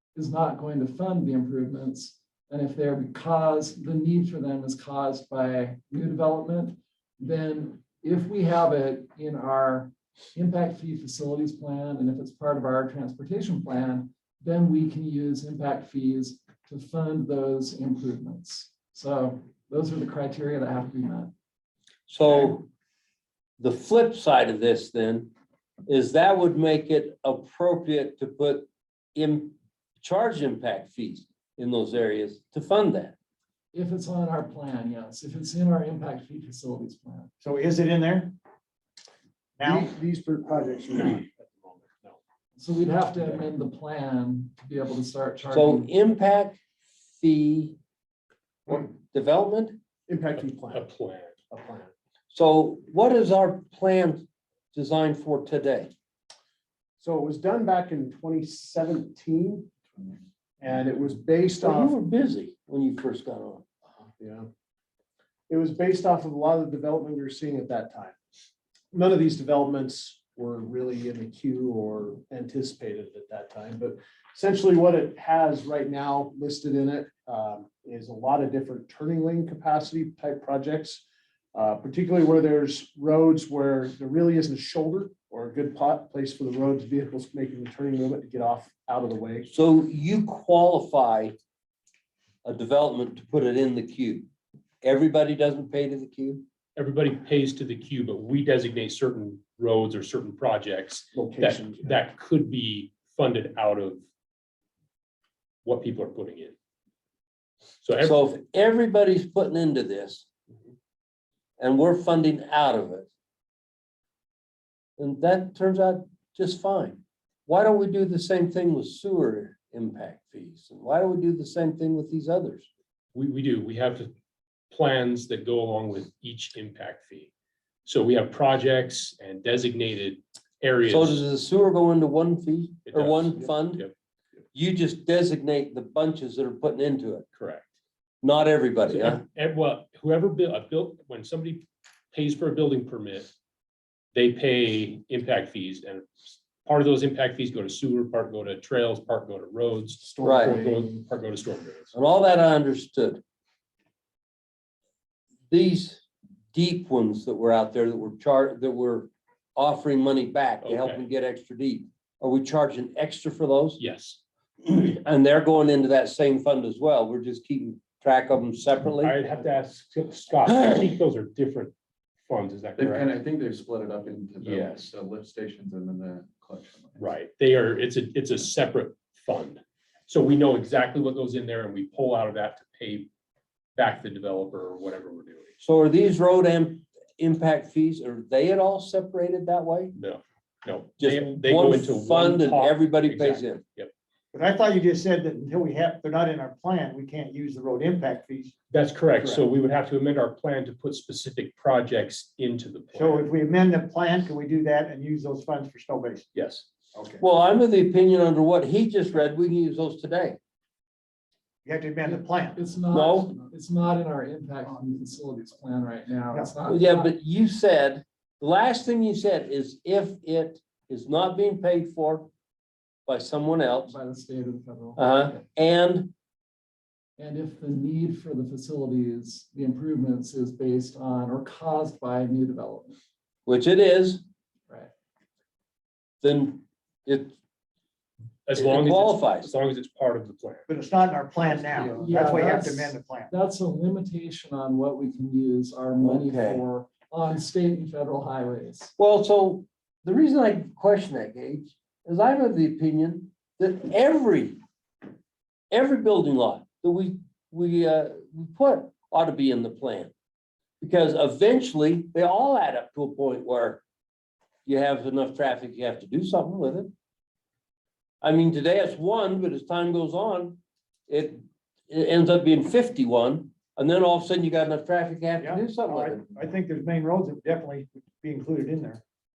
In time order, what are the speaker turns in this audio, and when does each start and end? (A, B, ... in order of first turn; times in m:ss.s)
0:00.1-0:21.3 A
0:22.1-0:22.7 B
0:23.6-0:25.3 B
0:25.9-0:33.1 B
0:33.7-0:37.3 A
0:37.4-0:38.3 C
0:39.6-0:39.9 C
0:39.6-0:42.2 D
0:42.6-0:45.9 A
0:45.5-0:46.6 B
0:47.2-0:47.8 B
0:48.7-0:49.8 B
0:50.1-0:50.9 D
0:50.7-0:51.4 E
0:51.5-0:51.9 D
0:52.3-0:55.9 B
0:57.0-0:59.7 D
1:00.6-1:01.9 D
1:01.6-1:03.6 B
1:04.2-1:04.5 D
1:05.5-1:08.1 D
1:08.9-1:29.5 D
1:29.5-1:31.4 B
1:32.4-1:34.3 B
1:34.8-1:36.4 B
1:36.8-1:44.0 E
1:41.1-1:42.0 D
1:45.6-1:46.5 E
1:47.8-1:48.2 E
1:48.0-1:50.2 B
1:51.6-1:53.1 B
1:55.0-2:02.7 B
2:03.1-2:04.1 E
2:04.7-2:07.3 E
2:07.8-2:11.2 E
2:10.8-2:13.8 B
2:12.9-2:13.9 E
2:14.5-2:17.2 B
2:17.3-2:17.7 E
2:18.2-2:19.2 B
2:18.9-2:23.3 E
2:24.1-2:31.9 E
2:30.0-2:31.0 D
2:30.2-2:30.6 B
2:31.9-2:33.2 B
2:35.5-2:43.8 B
2:40.6-2:41.0 E
2:43.8-2:44.2 E
2:44.6-2:49.2 B
2:49.0-2:51.7 E
2:52.2-2:53.1 E
2:52.8-2:57.1 F
2:54.4-2:54.9 E
2:57.0-3:03.1 E
3:03.8-3:05.5 E
3:05.6-3:09.9 B
3:10.0-3:13.9 E
3:11.0-3:13.6 B
3:14.3-3:18.5 C
3:18.7-3:23.3 E
3:22.9-3:26.3 C
3:26.3-3:26.6 E
3:26.9-3:27.2 C
3:27.2-3:30.4 B
3:31.6-3:32.6 C
3:32.1-3:37.1 A
3:32.9-3:33.4 B
3:36.7-3:42.3 B
3:43.0-3:44.0 B
3:43.9-3:45.4 A
3:45.0-3:46.1 B
3:47.2-3:53.0 A
3:53.4-3:54.2 B
3:56.2-3:57.4 B
3:58.5-4:00.6 E
3:58.6-3:59.5 B
4:00.7-4:03.3 C
4:01.7-4:02.3 F
4:01.9-4:08.9 A
4:06.0-4:06.6 B
4:09.0-4:14.6 B
4:15.7-4:20.1 B
4:20.8-4:23.8 B
4:24.6-4:26.9 B
4:28.2-4:36.2 B
4:35.4-4:39.0 C